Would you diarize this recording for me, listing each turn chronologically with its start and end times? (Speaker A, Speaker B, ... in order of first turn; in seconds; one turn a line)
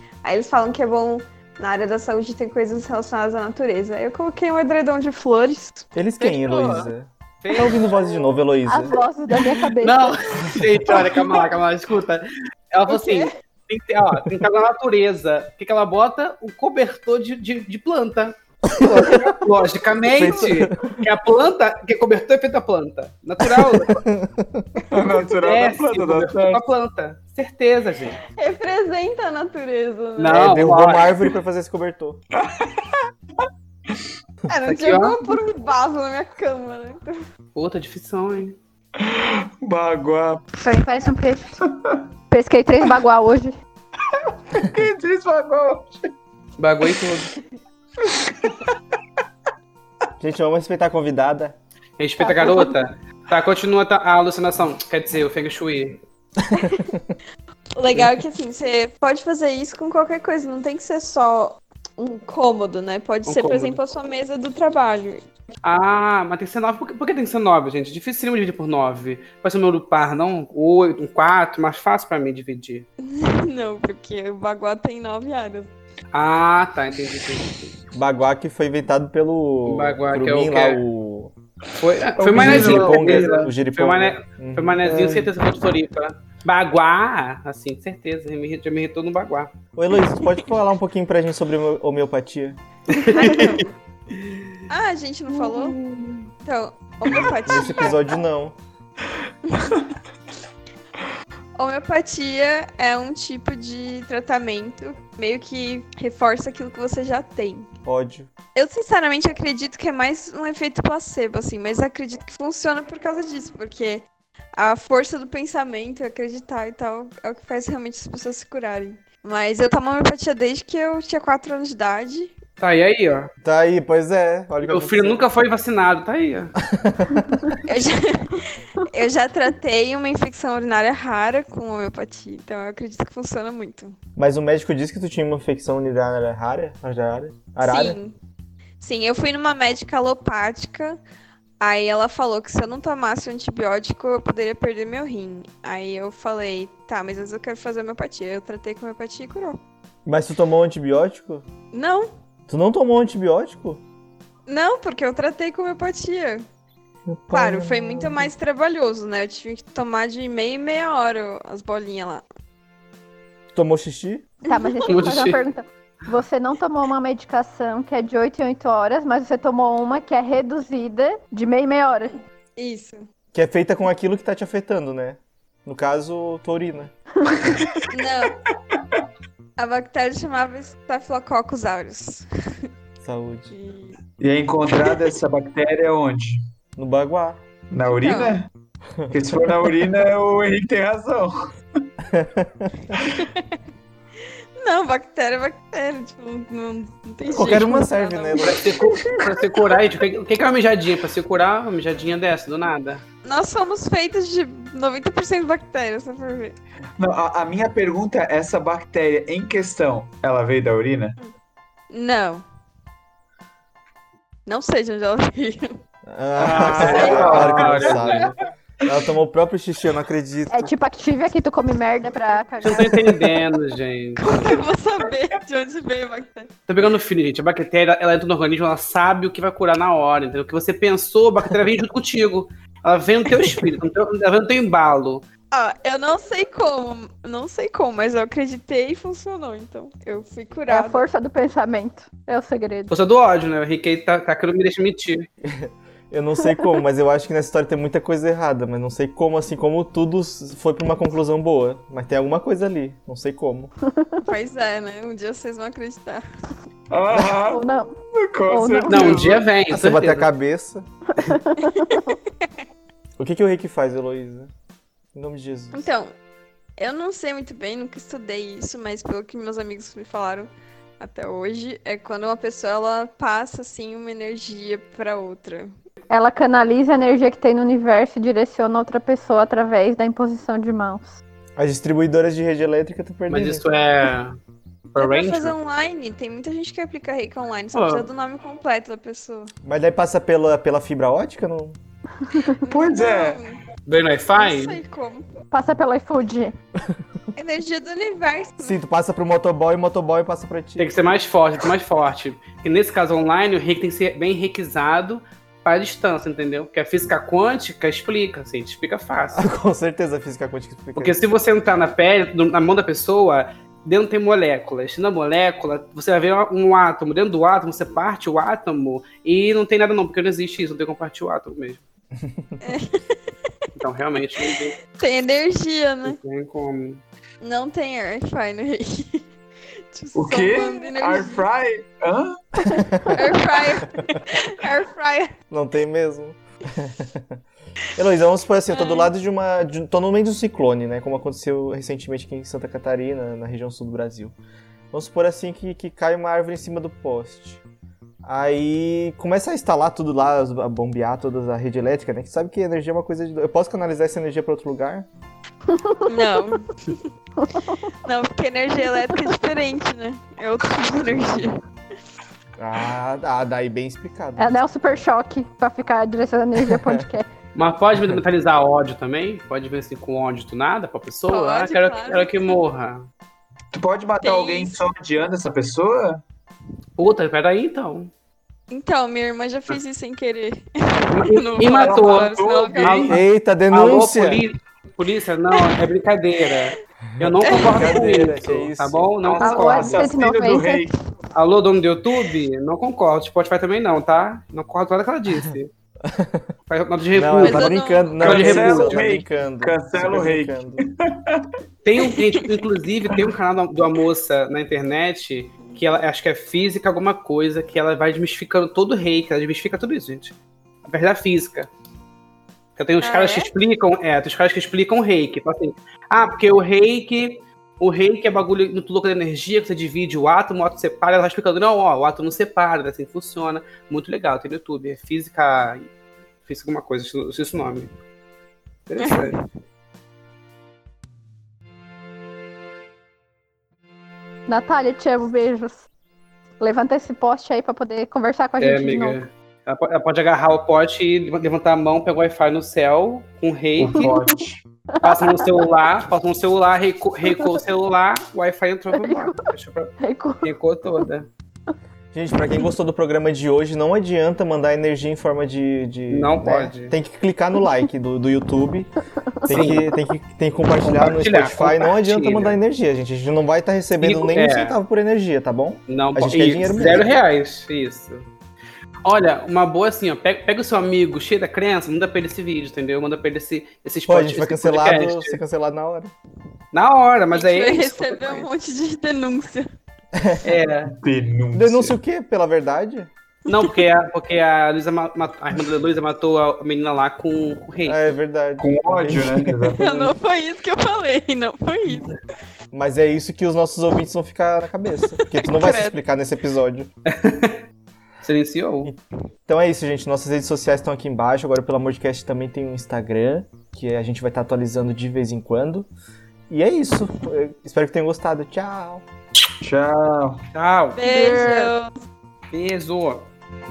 Speaker A: 0.2-5.9
Speaker B: 6.0-9.0
Speaker C: 6.2-6.9
Speaker C: 7.4-8.3
Speaker D: 8.7-10.3
Speaker C: 9.7-24.0
Speaker A: 12.9-13.3
Speaker B: 18.7-19.4
Speaker B: 20.0-21.0
Speaker B: 23.6-24.9
Speaker E: 24.9-26.6
Speaker C: 25.2-28.2
Speaker A: 28.3-30.5
Speaker C: 30.2-31.1
Speaker B: 30.3-32.2
Speaker E: 32.3-33.0
Speaker A: 34.5-37.2
Speaker C: 34.7-35.4
Speaker C: 37.5-38.6
Speaker E: 39.0-40.5
Speaker D: 40.6-41.6
Speaker E: 41.7-42.0
Speaker D: 42.3-43.5
Speaker E: 44.0-46.0
Speaker C: 46.6-47.4
Speaker E: 48.0-48.7
Speaker B: 50.2-51.6
Speaker C: 52.0-56.0
Speaker A: 52.2-52.7
Speaker B: 56.4-57.2
Speaker A: 57.8-65.2
Speaker C: 63.3-63.8
Speaker C: 65.6-72.9
Speaker A: 73.0-75.7
Speaker C: 76.1-77.7
Speaker B: 77.9-81.3
Speaker C: 79.7-80.8
Speaker C: 81.8-89.5
Speaker E: 82.2-83.5
Speaker B: 82.3-85.3
Speaker B: 89.8-92.6
Speaker C: 92.9-93.6
Speaker A: 93.1-93.7
Speaker C: 94.1-94.4
Speaker A: 94.7-95.8
Speaker C: 95.5-96.2
Speaker A: 96.4-98.2
Speaker B: 97.5-98.6
Speaker A: 99.5-99.8
Speaker A: 101.6-107.7
Speaker B: 107.8-108.3
Speaker A: 108.5-114.0
Speaker A: 114.6-122.3
Speaker C: 122.6-123.3
Speaker B: 123.4-125.2
Speaker C: 124.6-126.5
Speaker B: 126.6-127.6
Speaker A: 127.7-134.0
Speaker B: 134.2-138.0
Speaker A: 137.6-138.2
Speaker A: 138.8-141.0
Speaker A: 141.6-149.6
Speaker B: 150.1-151.5
Speaker A: 151.7-152.1
Speaker B: 152.5-153.8
Speaker A: 154.5-156.4
Speaker B: 157.1-158.3
Speaker A: 157.3-162.2
Speaker B: 163.5-164.3
Speaker D: 164.5-172.2
Speaker A: 164.5-164.9
Speaker C: 164.9-165.4
Speaker A: 172.6-173.1
Speaker B: 173.3-176.9
Speaker A: 177.9-178.4
Speaker A: 179.6-182.3
Speaker B: 183.0-183.5
Speaker A: 183.5-184.0
Speaker E: 184.2-186.4
Speaker B: 186.8-187.4
Speaker E: 187.7-188.5
Speaker A: 188.0-188.4
Speaker B: 189.0-189.3
Speaker E: 189.1-191.3
Speaker B: 192.1-193.0
Speaker A: 193.0-193.6
Speaker A: 194.6-199.2
Speaker B: 197.3-198.7
Speaker C: 198.4-203.0
Speaker A: 203.2-206.6
Speaker E: 207.0-211.2
Speaker A: 211.9-212.4
Speaker A: 214.5-215.8
Speaker B: 216.1-220.7
Speaker E: 216.4-218.3
Speaker C: 216.5-218.3
Speaker D: 220.5-223.2
Speaker C: 222.6-224.6
Speaker A: 224.2-226.5
Speaker C: 226.7-235.2
Speaker A: 235.5-241.0
Speaker D: 240.7-242.9
Speaker C: 242.9-245.3
Speaker B: 245.4-253.7
Speaker D: 253.9-254.2
Speaker A: 254.2-256.2
Speaker E: 256.9-259.4
Speaker D: 257.5-257.9
Speaker D: 258.5-259.3
Speaker C: 258.9-260.3
Speaker B: 259.7-261.4
Speaker D: 261.1-262.1
Speaker A: 261.6-262.5
Speaker B: 263.2-264.5
Speaker B: 265.1-265.9
Speaker A: 265.7-266.1
Speaker A: 266.8-275.7
Speaker D: 276.1-281.2
Speaker B: 281.6-283.6
Speaker C: 283.3-284.4
Speaker C: 284.9-285.6
Speaker A: 285.0-289.5
Speaker C: 287.7-288.1
Speaker B: 289.6-291.8
Speaker A: 292.6-293.6
Speaker E: 292.7-293.4
Speaker C: 293.9-294.8
Speaker A: 294.4-295.2
Speaker D: 295.5-296.5
Speaker A: 297.4-298.8
Speaker B: 298.6-300.9
Speaker C: 300.8-309.4
Speaker B: 309.4-311.2
Speaker C: 311.0-321.8
Speaker B: 322.2-322.6
Speaker A: 322.6-323.3
Speaker C: 323.8-324.8
Speaker A: 324.9-326.2
Speaker C: 326.1-327.0
Speaker A: 327.4-329.3
Speaker A: 329.9-331.4
Speaker E: 330.1-332.4
Speaker B: 332.7-333.2
Speaker A: 332.7-335.3
Speaker B: 335.5-337.4
Speaker B: 337.9-344.4
Speaker A: 338.7-339.1
Speaker B: 344.9-347.6
Speaker B: 348.2-355.1
Speaker D: 355.7-356.0
Speaker A: 356.1-356.9
Speaker D: 357.4-357.7
Speaker A: 358.1-361.6
Speaker B: 362.6-364.6
Speaker D: 364.4-367.3
Speaker B: 366.6-367.0
Speaker C: 367.6-373.1
Speaker A: 371.3-372.5
Speaker E: 373.7-376.2
Speaker A: 374.2-374.8
Speaker C: 377.0-378.1
Speaker A: 378.7-383.2
Speaker C: 381.1-390.1
Speaker E: 381.7-383.2
Speaker B: 383.1-384.4
Speaker B: 387.2-389.4
Speaker A: 387.4-387.9
Speaker E: 389.4-390.9
Speaker D: 389.4-390.9
Speaker C: 391.4-395.7
Speaker B: 396.0-396.5
Speaker C: 396.7-399.1
Speaker B: 397.1-400.9
Speaker A: 397.4-398.5
Speaker E: 398.2-401.5
Speaker C: 401.8-410.4
Speaker A: 402.0-402.5
Speaker C: 410.9-411.7
Speaker C: 412.8-425.9
Speaker A: 413.0-413.5
Speaker C: 426.4-427.9
Speaker C: 428.9-429.4
Speaker A: 429.0-429.3
Speaker D: 434.5-435.9
Speaker D: 436.6-439.2
Speaker C: 438.6-444.2
Speaker E: 443.8-444.6
Speaker D: 445.0-445.5
Speaker C: 445.0-451.3
Speaker D: 448.9-449.5
Speaker D: 450.0-450.5
Speaker B: 452.1-458.9
Speaker C: 456.1-456.9
Speaker D: 459.4-459.7
Speaker B: 459.4-467.1
Speaker C: 459.5-459.9
Speaker C: 460.8-462.6
Speaker C: 464.0-464.8
Speaker C: 465.9-468.3
Speaker C: 469.1-475.4
Speaker B: 474.1-476.1
Speaker C: 476.7-478.5
Speaker A: 477.3-479.7
Speaker B: 480.1-480.4
Speaker C: 480.4-481.0
Speaker E: 480.9-481.9
Speaker B: 481.5-483.1
Speaker C: 483.5-488.1
Speaker B: 487.8-490.1
Speaker E: 488.6-489.8
Speaker A: 489.8-492.2
Speaker B: 492.7-496.9
Speaker A: 495.2-496.0
Speaker C: 497.1-497.6
Speaker C: 498.2-498.9
Speaker B: 498.8-505.9
Speaker B: 506.5-509.1
Speaker E: 509.6-510.4
Speaker C: 510.5-511.7
Speaker A: 511.0-512.0
Speaker C: 512.5-513.3